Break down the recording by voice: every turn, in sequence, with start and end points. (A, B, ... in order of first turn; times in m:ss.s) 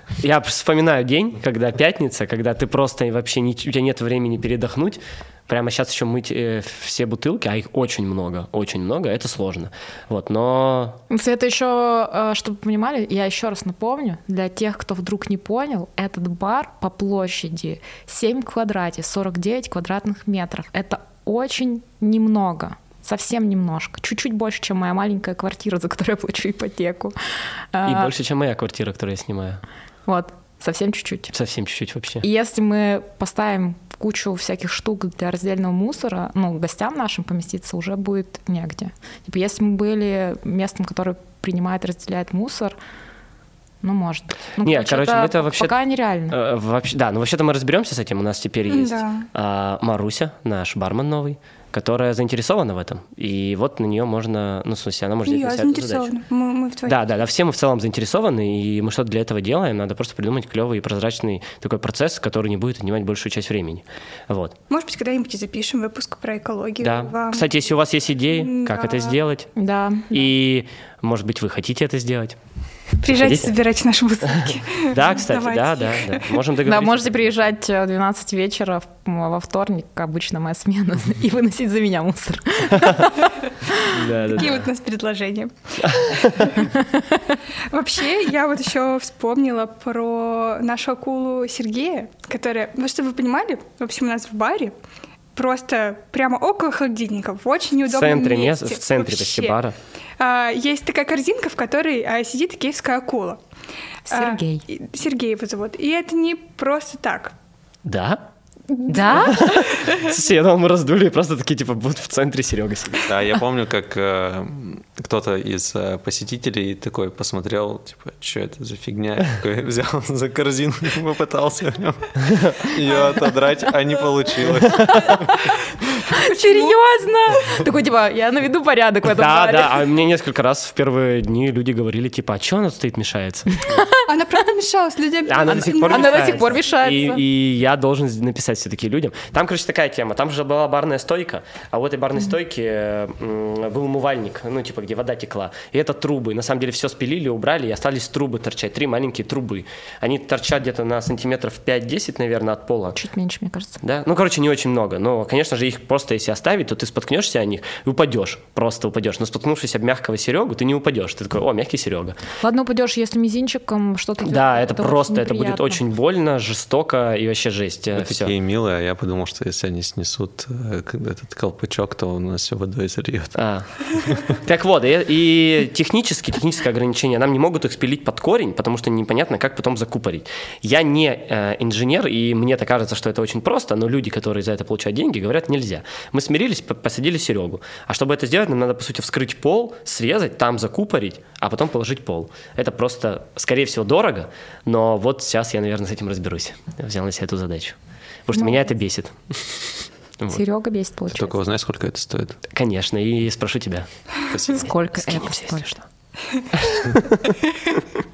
0:00.2-0:11.0 A
0:11.1-0:27.2 B
0:27.7-0:28.1 B
0:27.8-0:29.6 A
0:30.0-0:31.3 B
0:31.3-0:32.2 A
0:32.2-0:42.8 B
0:43.8-0:46.3 B
0:44.6-0:45.8 A
0:46.3-0:56.1 A
0:48.7-0:49.3 C
0:55.2-0:57.0 C
0:56.8-1:04.5 A
1:04.7-1:07.5 C
1:06.8-1:09.6 A
1:08.3-1:09.2 C
1:09.6-1:10.3 B
1:10.1-1:12.4 A
1:13.0-1:16.3 C
1:13.0-1:13.6 A
1:14.8-1:17.4 A
1:16.6-1:23.9 B
1:23.9-1:24.6 A
1:24.3-1:26.7 C
1:25.8-1:26.4 A
1:27.7-1:34.7 C
1:35.3-1:39.6 C
1:37.9-1:39.7 A
1:40.2-1:43.4 C
1:44.1-1:44.6 B
1:44.1-1:47.3 C
1:47.8-1:48.2 A
1:48.8-1:50.0 C
1:48.8-1:49.6 B
1:49.3-1:53.1 A
1:53.1-2:05.3 D
2:04.6-2:05.1 A
2:06.1-2:06.8 C
2:06.1-2:09.8 B
2:09.2-2:13.8 A
2:13.6-2:14.0 B
2:14.0-2:16.5 C
2:15.2-2:33.0 A
2:15.9-2:17.2 B
2:32.9-2:33.8 B
2:33.8-2:42.2 A
2:42.4-2:45.8 B
2:44.2-2:48.3 A
2:47.9-2:54.3 D
2:53.4-2:53.7 A
2:54.3-3:20.4 A
3:18.3-3:18.6 B
3:20.3-3:21.3 B
3:21.1-3:22.4 D
3:22.5-3:24.4 A
3:24.3-3:24.7 D
3:24.5-3:25.8 B
3:25.0-3:25.7 A
3:26.6-3:27.2 A